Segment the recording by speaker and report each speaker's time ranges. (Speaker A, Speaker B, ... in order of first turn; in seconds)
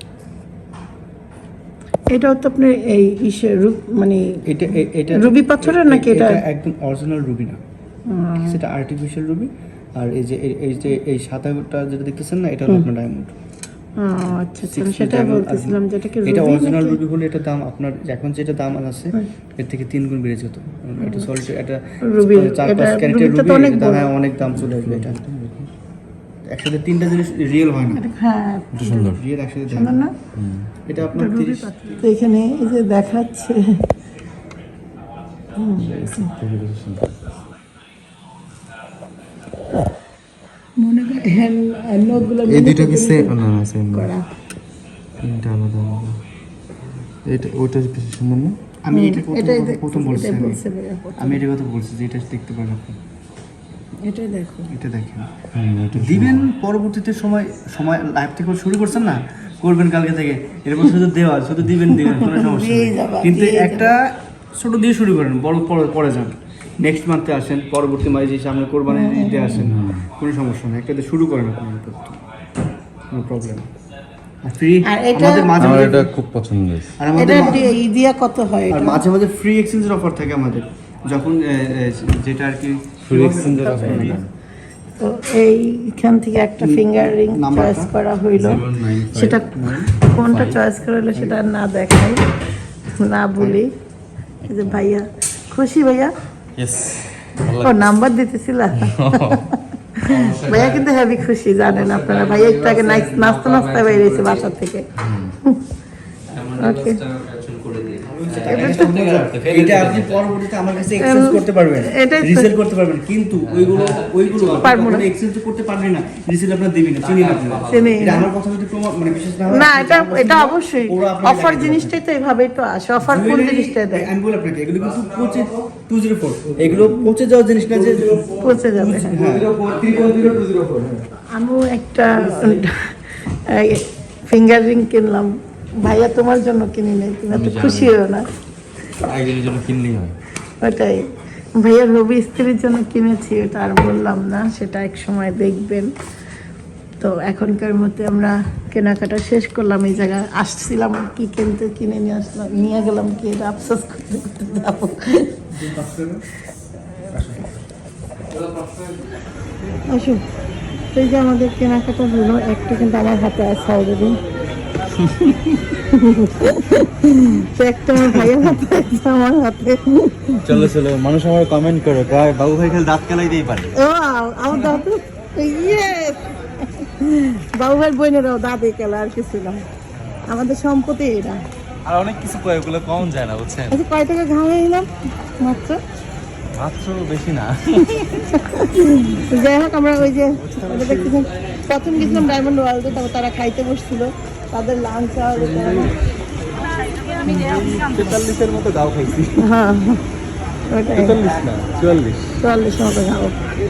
Speaker A: 2.1-4.4, 5.1-6.4, 8.1-8.6, 14.0-17.0, 21.0-21.3, 22.0-24.1, 27.9-29.2, 29.7-30.1, 31.2-33.6, 35.6-36.3, 40.8-44.2, 48.9-51.4, 54.0-54.7, 62.0-63.9, 68.9-69.7, 74.8-75.7, 77.1-79.0, 83.6-84.1, 85.0-92.2, 93.0-93.7, 94.5-96.1, 97.6-99.4, 100.1-104.8, 106.6-107.0, 108.5-108.9, 110.9-112.5, 114.6-115.1, 117.7-118.3, 119.5-124.1, 128.4-129.1, 131.3-138.2, 140.6-145.9, 147.0-155.3, 159.9-160.2, 160.9-164.2, 165.9-170.6, 173.8-179.6, 180.2-181.4, 183.7-184.9, 185.4-185.8, 188.3-195.9, 197.2-197.7, 199.4-200.0, 200.7-201.2, 202.4-203.4
Speaker B: 4.4-7.6, 8.4-13.3, 14.2-25.2, 26.4-28.0, 29.1-30.0, 30.9-31.7, 48.8-50.6, 51.2-53.0, 54.7-55.3, 55.9-72.2, 73.1-73.7, 74.4-76.2, 77.0-77.7, 78.7-84.2, 86.6-87.9, 89.5-89.9, 91.1-91.4, 108.0-122.0, 123.0-130.3, 155.5-156.2, 157.1-157.5
Speaker C: 24.5-25.7, 28.7-29.2, 30.3-30.7, 35.8-37.1, 42.4-44.1, 45.2-46.2, 47.2-48.6, 55.5-56.4, 69.6-70.0, 75.6-76.9, 83.0-84.3, 88.3-89.4, 90.3-90.6, 94.5-94.8, 96.6-97.8, 98.8-99.4, 100.0-100.8, 101.7-104.4, 105.0-105.3, 106.3-110.3, 113.4-114.6, 117.0-118.0, 125.0-125.4, 126.5-127.0, 127.7-128.5, 129.1-131.0, 132.3-132.6, 137.3-137.9, 139.0-140.1, 158.4-158.9, 170.4-173.7, 181.8-183.8, 186.5-188.3, 190.4-191.1, 195.4-195.9, 197.1-199.4, 200.9-202.3